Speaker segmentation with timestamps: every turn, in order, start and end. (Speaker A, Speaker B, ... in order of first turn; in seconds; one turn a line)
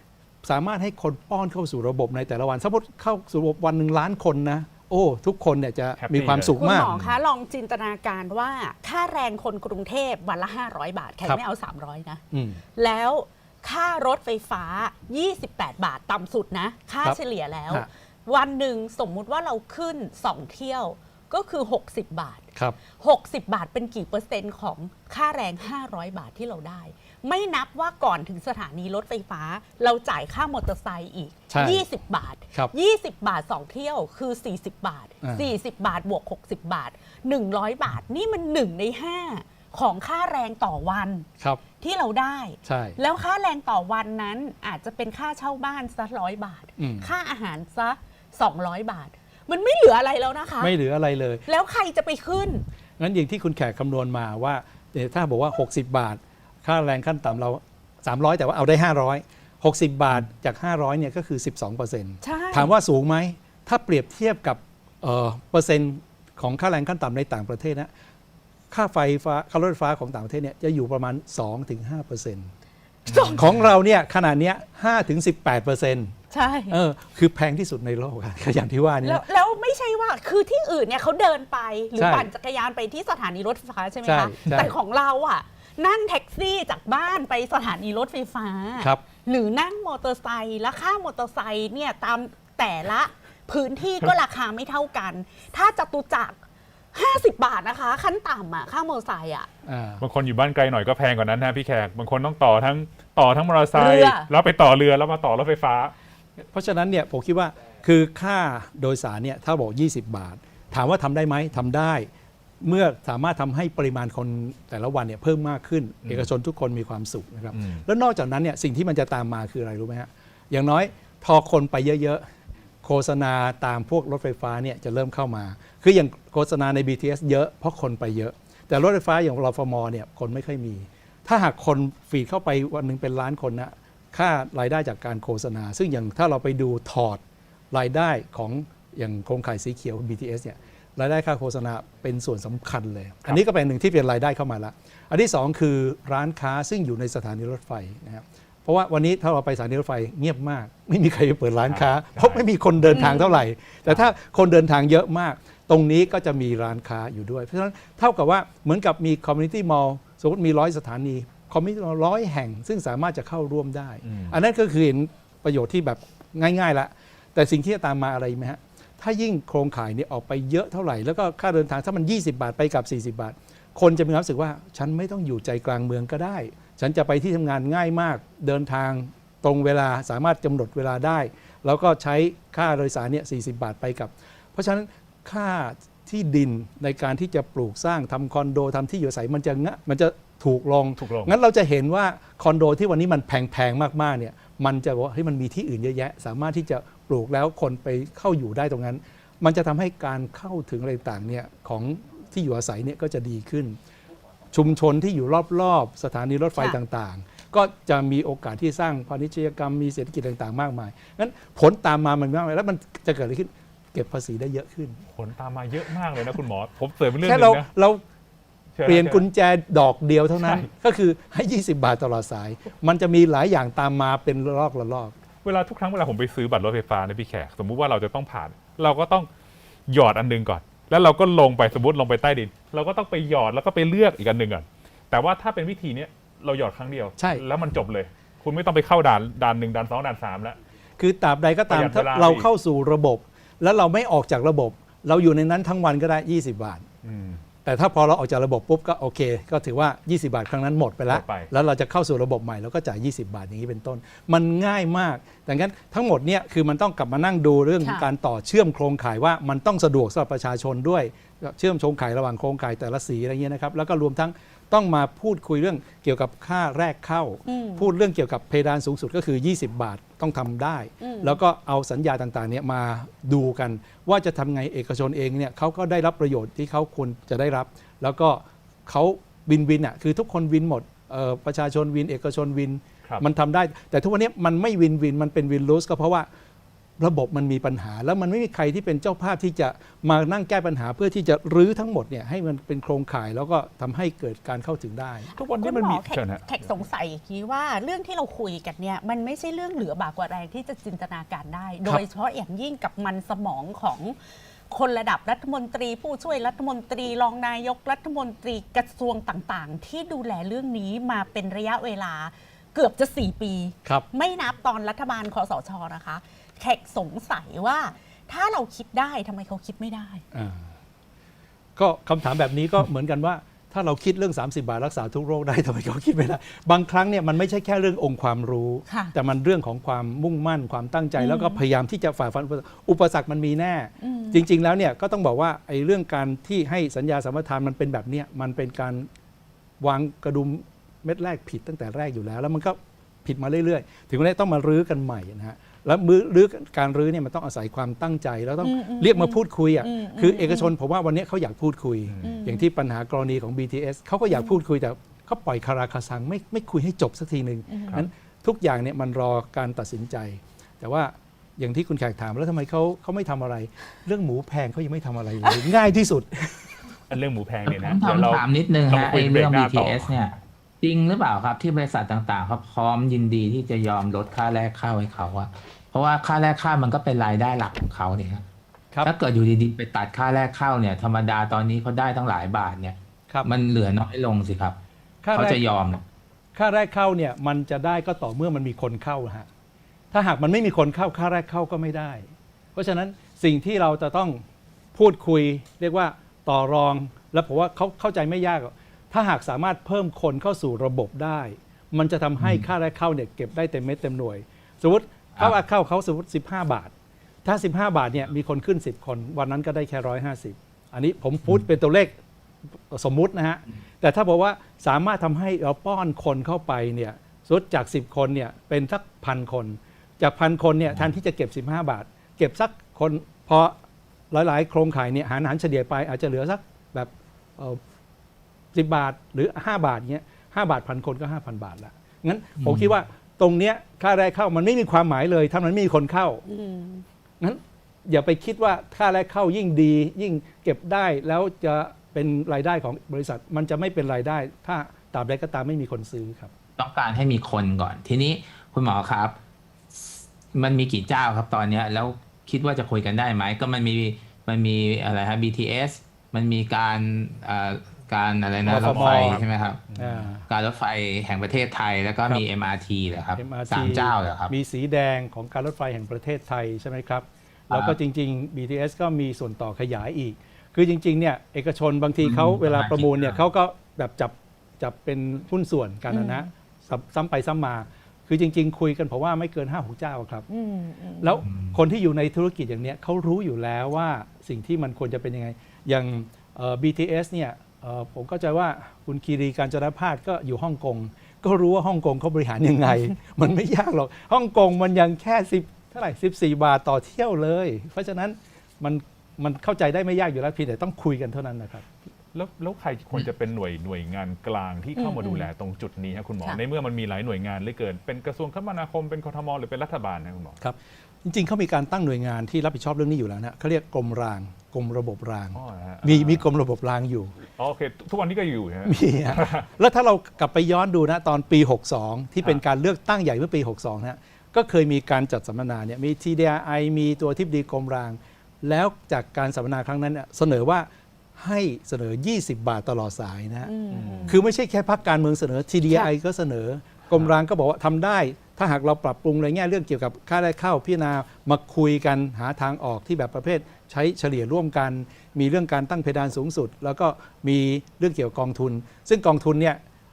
Speaker A: 0.4-6.9
Speaker B: 6.0-7.2
Speaker C: 6.5-12.2
Speaker A: 12.3-12.6
Speaker C: 12.8-22.4
Speaker A: 17.0-17.9
Speaker C: 23.0-41.3
Speaker A: 31.5-31.9
Speaker A: 35.2-35.5
Speaker C: 41.8-50.7
Speaker A: 42.6-43.0
Speaker A: 46.8-47.1
Speaker A: 50.6-51.5
Speaker C: 51.5-52.6
Speaker A: 53.0-67.9
Speaker C: 62.2-62.7
Speaker A: 68.7-72.5
Speaker C: 73.1-73.4
Speaker B: 73.1-73.6
Speaker A: 73.1-76.1
Speaker C: 76.3-76.8
Speaker A: 76.7-79.2
Speaker C: 79.0-96.4
Speaker A: 82.0-82.3
Speaker A: 84.0-84.8
Speaker C: 96.9-99.5
Speaker A: 99.7-100.0
Speaker B: 100.0-105.9
Speaker C: 103.8-104.3
Speaker A: 106.5-112.1
Speaker A: 112.6-122.3
Speaker B: 116.0-116.3
Speaker B: 117.5-117.8
Speaker A: 122.8-203.8
Speaker B: 151.6-152.4
Speaker C: 152.9-153.4
Speaker B: 164.0-164.4
Speaker B: 191.0-191.3
Speaker A: 204.5-215.0
Speaker B: 215.1-217.7
Speaker A: 217.2-218.0
Speaker B: 218.8-219.3
Speaker A: 218.8-225.1
Speaker B: 220.4-220.7
Speaker B: 225.4-229.3
Speaker B: 229.9-240.6
Speaker A: 237.2-237.4
Speaker A: 241.0-246.9
Speaker B: 241.7-242.5
Speaker B: 247.0-247.4
Speaker A: 247.7-286.3
Speaker B: 251.1-251.5
Speaker C: 257.8-258.1
Speaker C: 267.5-267.9
Speaker C: 271.0-271.4
Speaker A: 287.0-295.3
Speaker C: 295.4-304.2
Speaker B: 295.4-296.6
Speaker C: 304.7-320.2
Speaker A: 320.3-320.7
Speaker A: 321.8-339.1
Speaker C: 328.9-329.1
Speaker C: 331.2-331.6
Speaker C: 334.0-334.4
Speaker A: 339.8-366.8
Speaker C: 348.6-350.7
Speaker B: 352.1-352.3
Speaker C: 352.2-352.7
Speaker C: 354.3-354.6
Speaker C: 357.7-358.0
Speaker B: 367.1-370.1
Speaker D: 367.7-378.5
Speaker D: 379.1-384.8
Speaker A: 385.2-385.6
Speaker D: 385.3-386.1
Speaker A: 386.6-389.5
Speaker A: 390.1-394.4
Speaker A: 394.9-406.9
Speaker D: 402.4-402.7
Speaker A: 407.4-412.2
Speaker A: 412.9-423.8
Speaker A: 424.3-427.8
Speaker A: 428.7-436.4
Speaker D: 432.6-432.9
Speaker C: 436.5-437.1
Speaker A: 437.4-446.5
Speaker D: 446.8-449.4
Speaker D: 449.9-459.8
Speaker B: 458.6-460.3
Speaker A: 458.6-459.4
Speaker A: 460.0-460.5
Speaker D: 460.5-464.5
Speaker A: 463.4-480.5
Speaker D: 467.7-468.0
Speaker D: 472.2-473.4
Speaker C: 476.1-476.5
Speaker C: 480.5-481.4
Speaker A: 481.2-501.9
Speaker D: 481.5-481.8
Speaker B: 502.3-510.6
Speaker C: 505.0-505.5
Speaker A: 510.6-517.3
Speaker B: 515.5-516.5
Speaker B: 517.6-519.7
Speaker A: 518.9-533.7
Speaker C: 533.6-534.4
Speaker B: 533.9-534.4
Speaker A: 534.3-549.8